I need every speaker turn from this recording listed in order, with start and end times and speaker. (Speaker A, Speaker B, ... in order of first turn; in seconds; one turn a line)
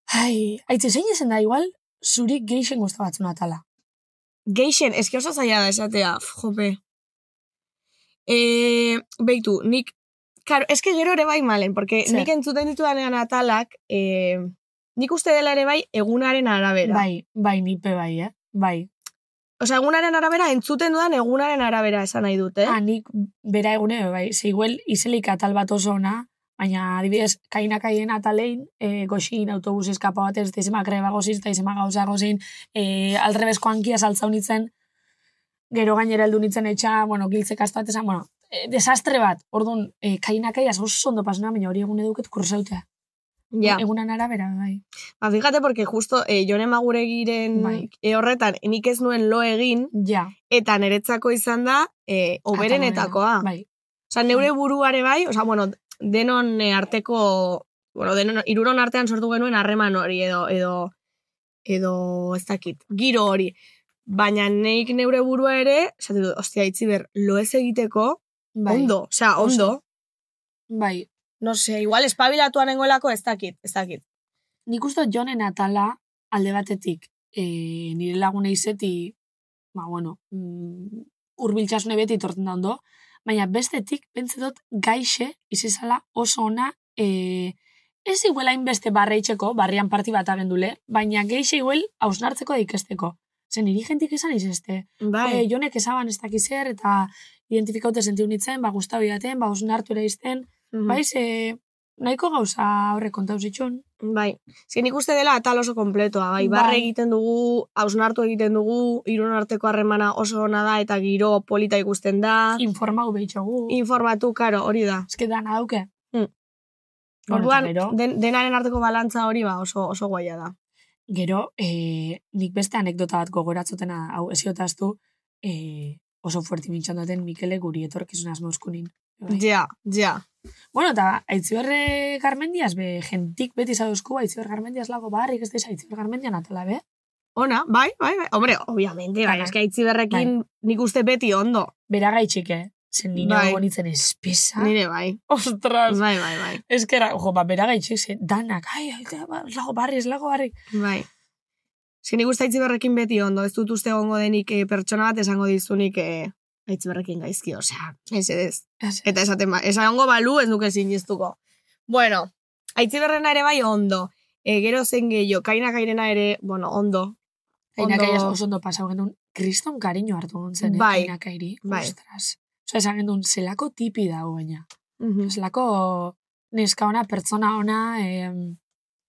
Speaker A: 0.1-3.6
Speaker B: 4.5-6.8
Speaker B: 8.3-9.9
Speaker B: 10.4-17.0
Speaker A: 16.8-18.9
Speaker B: 19.6-22.8
Speaker A: 22.6-34.7
Speaker A: 35.7-42.8
Speaker B: 43.5-43.8
Speaker A: 43.6-44.8
Speaker B: 45.2-49.9
Speaker A: 47.5-47.9
Speaker A: 49.9-50.3
Speaker B: 50.5-53.5
Speaker A: 52.5-53.6
Speaker B: 54.1-60.9
Speaker B: 61.6-63.5
Speaker B: 64.1-69.8
Speaker A: 68.5-69.7
Speaker A: 70.7-71.1
Speaker B: 71.4-74.0
Speaker A: 74.7-79.1
Speaker A: 79.7-87.5
Speaker A: 88.0-103.8
Speaker B: 95.0-95.4
Speaker B: 100.7-101.0
Speaker B: 104.0-112.6
Speaker A: 106.4-106.9
Speaker A: 112.6-113.8
Speaker B: 113.7-115.1
Speaker A: 115.1-115.9
Speaker B: 117.3-120.5
Speaker A: 117.3-118.0
Speaker A: 121.1-129.4
Speaker B: 129.3-130.2
Speaker A: 130.7-136.8
Speaker B: 137.3-141.7
Speaker A: 139.2-139.5
Speaker A: 141.9-144.7
Speaker B: 143.2-143.6
Speaker B: 144.6-145.2
Speaker A: 145.3-146.0
Speaker B: 145.9-146.6
Speaker A: 146.7-150.6
Speaker B: 150.7-151.1
Speaker B: 152.0-161.4
Speaker B: 161.9-167.2
Speaker A: 167.8-174.6
Speaker B: 167.8-168.3
Speaker B: 170.6-171.1
Speaker B: 171.7-171.9
Speaker B: 175.0-175.3
Speaker A: 175.2-178.6